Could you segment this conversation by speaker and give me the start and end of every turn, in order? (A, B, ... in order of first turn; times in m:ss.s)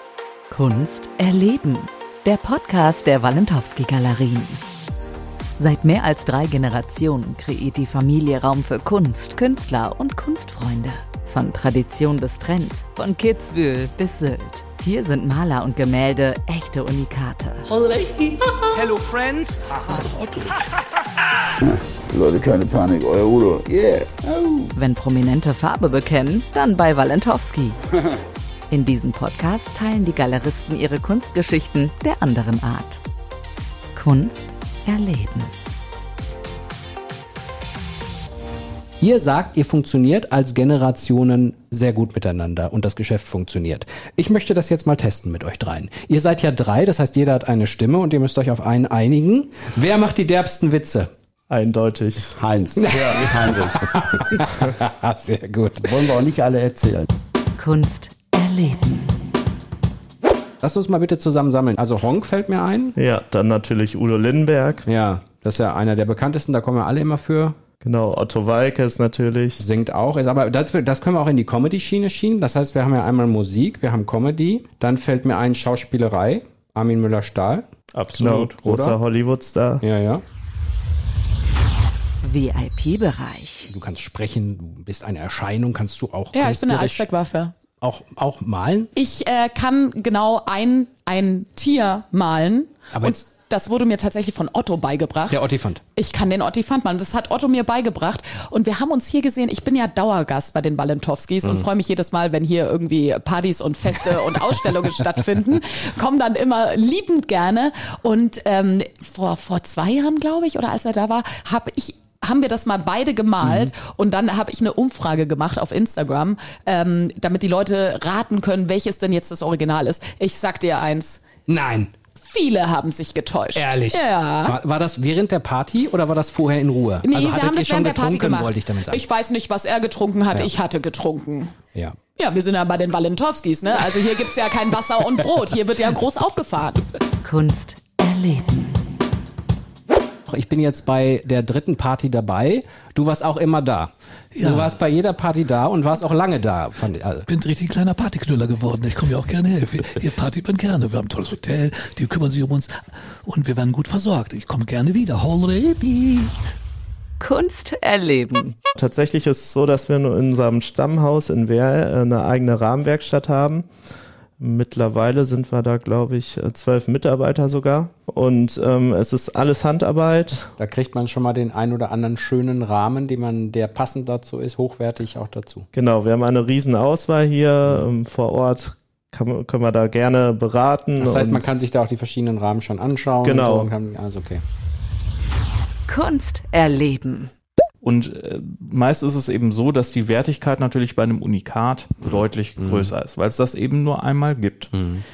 0:00.5-0:04.6 A
0:05.6-0:17.6 A
0:18.8-0:19.6 B
0:19.9-0:20.6 C
0:21.6-0:24.7 D
0:24.8-0:27.8 A
0:28.7-0:33.0 A
0:34.0-0:35.5 A
0:39.0-0:51.1 B
0:51.5-0:52.4 E
0:52.4-0:54.4 D
0:52.8-0:56.3 B
0:55.9-0:57.1 D
0:57.6-0:59.1 A
1:00.6-1:03.0 B
1:03.0-1:04.9 E
1:04.9-1:07.6 B
1:07.8-1:09.6 E
1:09.6-1:19.0 B
1:18.0-1:18.3 F
1:18.2-1:19.8 E
1:19.8-1:20.2 B
1:22.2-1:23.7 A
1:23.7-1:27.1 B
1:26.3-1:27.5 G
1:27.7-1:28.9 B
1:29.0-1:35.4 G
1:32.9-1:33.3 B
1:35.3-1:35.8 B
1:36.0-2:01.3 G
1:53.4-1:53.7 B
2:01.5-2:02.0 B
2:02.2-2:04.5 G
2:03.5-2:09.1 B
2:07.0-2:11.6 G
2:11.7-2:12.0 B
2:12.2-2:16.8 G
2:17.2-2:18.9 A
2:20.3-2:27.3 B
2:24.3-2:24.8 C
2:27.3-2:36.3 C
2:37.2-2:38.6 A
2:38.8-2:43.7 E
2:44.4-2:50.5 E
2:50.6-2:55.7 B
2:55.7-3:01.5 E
3:01.0-3:04.4 B
3:03.2-3:03.7 E
3:05.9-3:07.3 A
3:07.8-3:14.8 F
3:12.1-3:12.9 B
3:14.7-3:15.0 B